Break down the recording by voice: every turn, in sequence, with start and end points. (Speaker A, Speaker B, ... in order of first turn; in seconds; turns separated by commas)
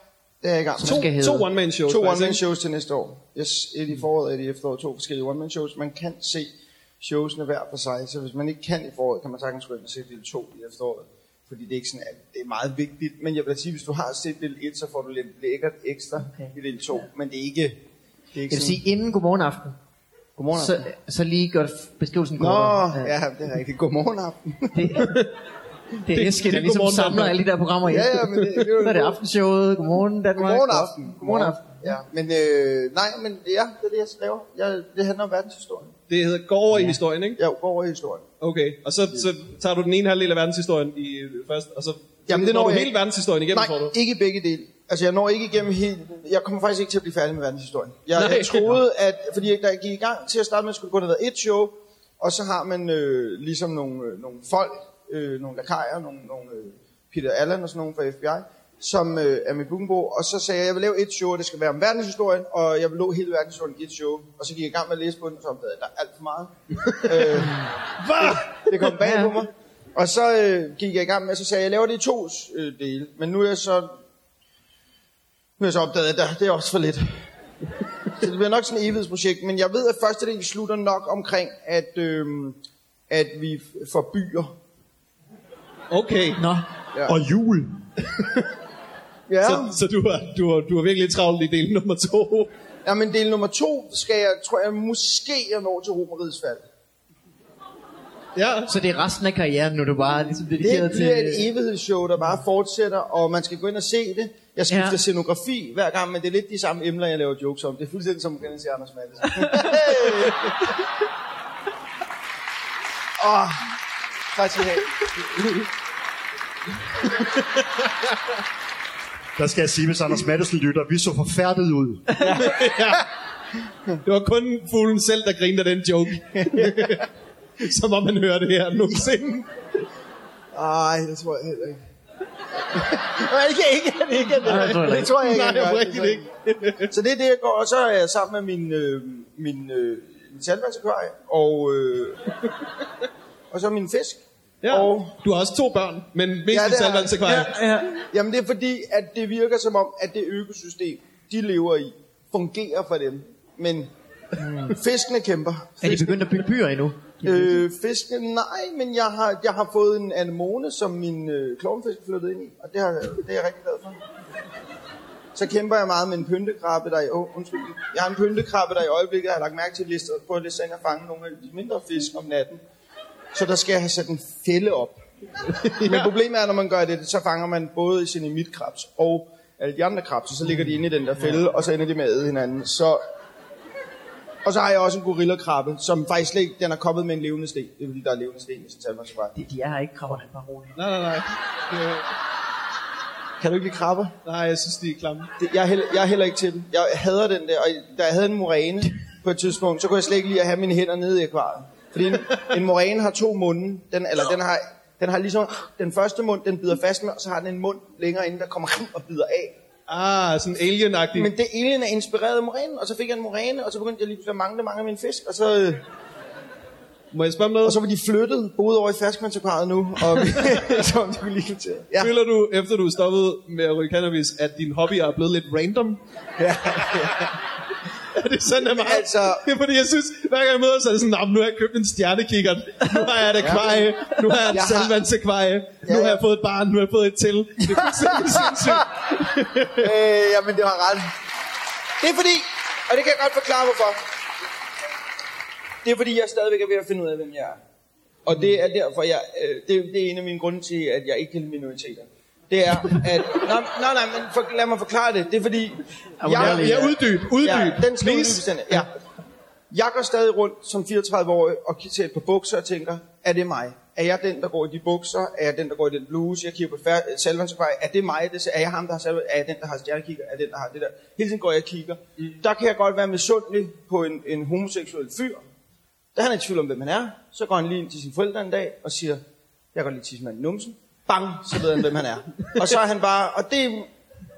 Speaker A: 0.4-1.1, Speaker B: 0.8-1.5, Speaker C: 0.8-2.4, Speaker A: 1.9-6.5, Speaker A: 7.0-17.8, Speaker A: 18.3-18.8, Speaker B: 18.5-19.8, Speaker A: 20.4-20.8, Speaker B: 20.5-23.1, Speaker A: 22.4-24.9, Speaker B: 24.7-25.2, Speaker C: 25.0-25.3, Speaker B: 26.0-31.8, Speaker C: 26.1-27.4, Speaker A: 27.9-29.2, Speaker A: 30.4-36.0, Speaker C: 36.1-37.4, Speaker A: 37.4-38.2, Speaker C: 38.4-44.0, Speaker A: 42.3-43.0, Speaker A: 43.5-67.7, Speaker C: 48.2-48.8, Speaker C: 66.8-67.3, Speaker C: 68.0-68.7, Speaker A: 68.2-74.0, Speaker B: 68.9-69.3, Speaker A: 75.6-77.2, Speaker A: 78.2-82.6, Speaker A: 83.1-84.6, Speaker C: 85.9-86.4, Speaker B: 86.4-86.7, Speaker D: 87.1-87.7, Speaker C: 88.1-88.5, Speaker A: 89.3-89.8, Speaker C: 89.4-92.5, Speaker A: 92.8-96.6, Speaker C: 98.4-98.7, Speaker B: 98.7-101.5, Speaker A: 100.6-110.7, Speaker B: 104.7-105.0, Speaker A: 113.2-113.8, Speaker A: 114.3-115.1, Speaker C: 117.2-117.5, Speaker D: 119.4-122.2, Speaker A: 122.2-122.7, Speaker C: 122.2-123.1, Speaker C: 124.0-127.1, Speaker A: 126.4-126.9, Speaker C: 127.6-129.4, Speaker A: 130.5-131.8, Speaker A: 132.8-136.3, Speaker B: 134.4-135.1, Speaker C: 134.5-136.9, Speaker A: 136.9-142.2, Speaker A: 143.5-145.2, Speaker C: 144.6-147.5, Speaker A: 146.5-156.2, Speaker B: 147.2-147.9, Speaker B: 155.8-157.6, Speaker A: 157.2-164.0, Speaker A: 165.3-172.6, Speaker A: 173.3-175.0, Speaker C: 175.5-176.1, Speaker A: 175.8-183.0, Speaker A: 184.4-189.3, Speaker B: 189.3-190.8, Speaker C: 190.8-192.0, Speaker A: 193.4-194.1, Speaker C: 194.2-195.3, Speaker A: 195.4-209.6, Speaker C: 209.9-211.3, Speaker A: 211.2-215.8, Speaker C: 217.1-217.8, Speaker A: 217.6-222.2, Speaker C: 222.0-226.0, Speaker A: 226.4-227.3, Speaker C: 226.8-227.2, Speaker C: 228.1-239.9, Speaker A: 228.7-229.4, Speaker A: 233.4-233.8, Speaker A: 234.5-235.0, Speaker A: 235.8-236.2, Speaker A: 237.7-238.6, Speaker A: 239.8-241.1, Speaker A: 242.0-244.0, Speaker A: 245.8-247.6, Speaker A: 248.2-258.9, Speaker B: 256.2-257.0, Speaker C: 256.4-258.8, Speaker A: 259.7-275.4, Speaker A: 276.1-279.2, Speaker A: 279.7-283.9